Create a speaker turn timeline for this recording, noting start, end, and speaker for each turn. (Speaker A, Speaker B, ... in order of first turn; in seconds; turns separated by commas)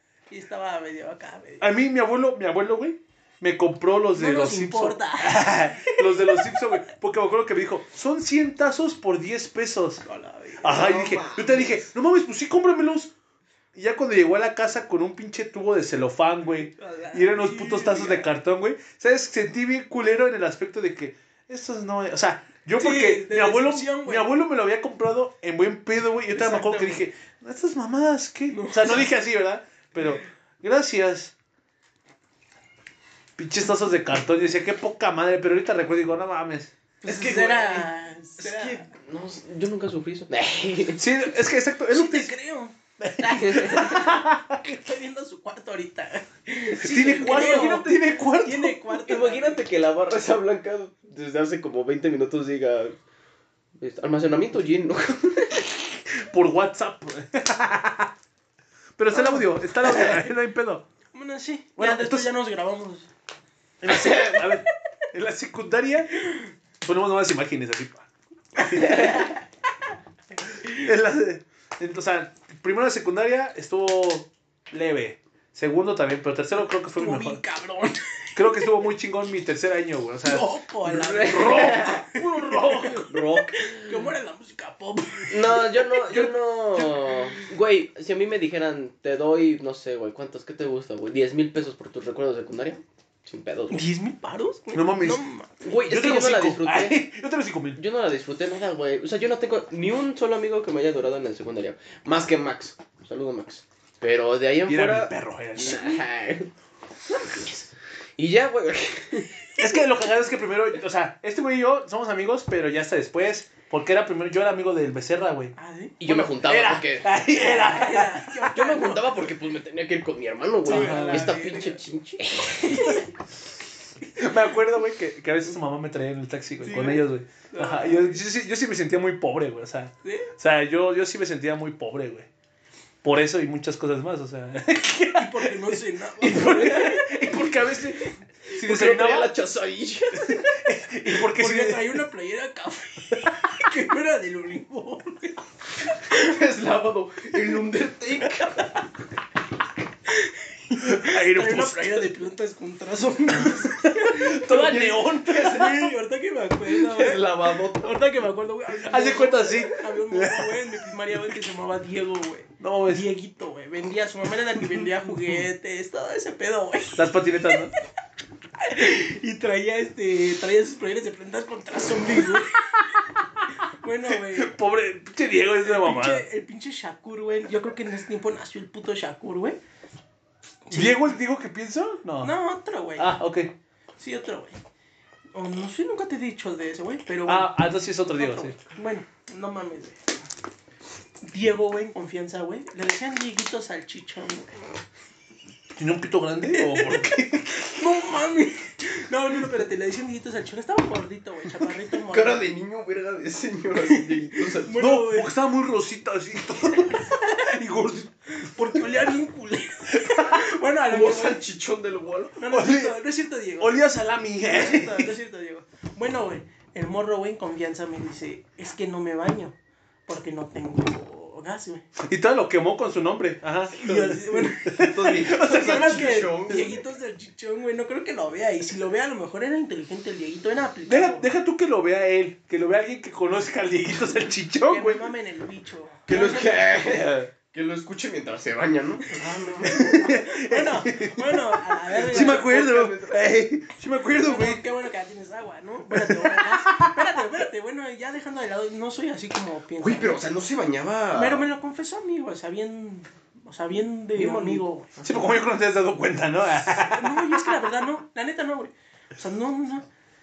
Speaker A: 0.3-1.6, Speaker B: 1.6-10.0, Speaker A: 4.1-6.6, Speaker A: 10.0-10.9, Speaker B: 10.6-13.1, Speaker C: 10.7-11.9, Speaker B: 13.7-31.3, Speaker A: 16.8-18.3, Speaker A: 22.8-24.3, Speaker A: 26.3-27.1, Speaker A: 28.5-29.1, Speaker B: 33.4-36.7, Speaker A: 37.0-38.9, Speaker C: 37.0-41.0, Speaker B: 41.0-42.3, Speaker A: 41.9-49.6, Speaker B: 43.0-44.6, Speaker C: 43.3-44.1, Speaker C: 46.7-48.2, Speaker B: 46.8-48.8, Speaker C: 49.0-53.0, Speaker C: 53.8-55.7, Speaker B: 56.2-58.1, Speaker B: 59.0-60.9, Speaker A: 59.1-60.3, Speaker A: 61.1-63.1, Speaker B: 61.8-62.3, Speaker B: 63.8-66.3, Speaker C: 63.9-64.5, Speaker B: 66.8-69.3, Speaker C: 68.9-69.2, Speaker B: 70.6-77.4, Speaker A: 77.0-78.0, Speaker B: 78.3-80.5, Speaker A: 80.2-83.0, Speaker C: 80.8-82.0, Speaker B: 81.1-83.2, Speaker C: 83.0-84.0, Speaker A: 83.5-85.7, Speaker C: 85.3-93.9, Speaker B: 86.0-86.3, Speaker A: 93.7-95.6, Speaker B: 94.7-95.2, Speaker C: 95.6-97.0, Speaker B: 95.9-97.8, Speaker C: 97.7-106.5, Speaker B: 104.7-105.8, Speaker C: 107.1-109.8, Speaker B: 109.6-118.4, Speaker A: 115.5-116.0, Speaker C: 116.0-117.1, Speaker A: 117.3-119.1, Speaker C: 118.5-123.0, Speaker A: 120.6-121.8, Speaker B: 120.7-121.3, Speaker A: 122.5-123.1, Speaker B: 124.2-132.3, Speaker A: 126.6-128.2, Speaker A: 130.0-130.3, Speaker B: 133.0-139.3, Speaker A: 135.2-137.4, Speaker C: 136.4-137.0, Speaker C: 138.6-140.4, Speaker B: 140.2-142.0, Speaker A: 141.3-145.4, Speaker C: 146.1-148.7, Speaker A: 150.1-154.7, Speaker B: 150.8-152.1, Speaker B: 153.5-155.9, Speaker C: 154.4-155.7, Speaker A: 155.3-167.7, Speaker C: 156.7-158.0, Speaker B: 158.8-160.8, Speaker B: 162.6-163.1, Speaker B: 164.6-165.4, Speaker B: 166.9-167.7, Speaker A: 168.6-172.9, Speaker A: 173.5-174.5, Speaker B: 174.3-176.2, Speaker A: 175.6-179.6, Speaker A: 180.7-181.1, Speaker B: 180.7-182.3, Speaker A: 182.2-183.1, Speaker B: 183.0-183.5, Speaker A: 184.0-184.6, Speaker A: 185.3-187.5, Speaker B: 187.3-188.6, Speaker A: 188.1-190.0, Speaker A: 191.2-194.5, Speaker B: 195.8-197.8, Speaker A: 196.5-202.4, Speaker C: 202.1-204.8, Speaker A: 203.9-205.3, Speaker B: 204.8-208.1, Speaker A: 206.9-207.5, Speaker A: 208.4-211.4, Speaker B: 210.1-210.4, Speaker C: 210.9-212.4, Speaker A: 212.4-213.8, Speaker B: 212.5-212.9, Speaker B: 213.6-215.1, Speaker A: 214.4-219.6, Speaker A: 220.1-221.8, Speaker B: 222.0-225.9, Speaker A: 223.7-231.2, Speaker C: 224.7-226.8, Speaker B: 230.9-235.1, Speaker A: 234.7-236.7, Speaker C: 236.1-239.7, Speaker B: 236.8-237.3, Speaker A: 239.0-242.5, Speaker B: 239.6-244.6, Speaker C: 241.9-243.2, Speaker A: 244.2-250.2, Speaker B: 245.9-247.0, Speaker C: 249.8-251.5, Speaker A: 251.1-255.0, Speaker C: 254.2-254.6, Speaker B: 255.0-257.6, Speaker A: 256.9-259.9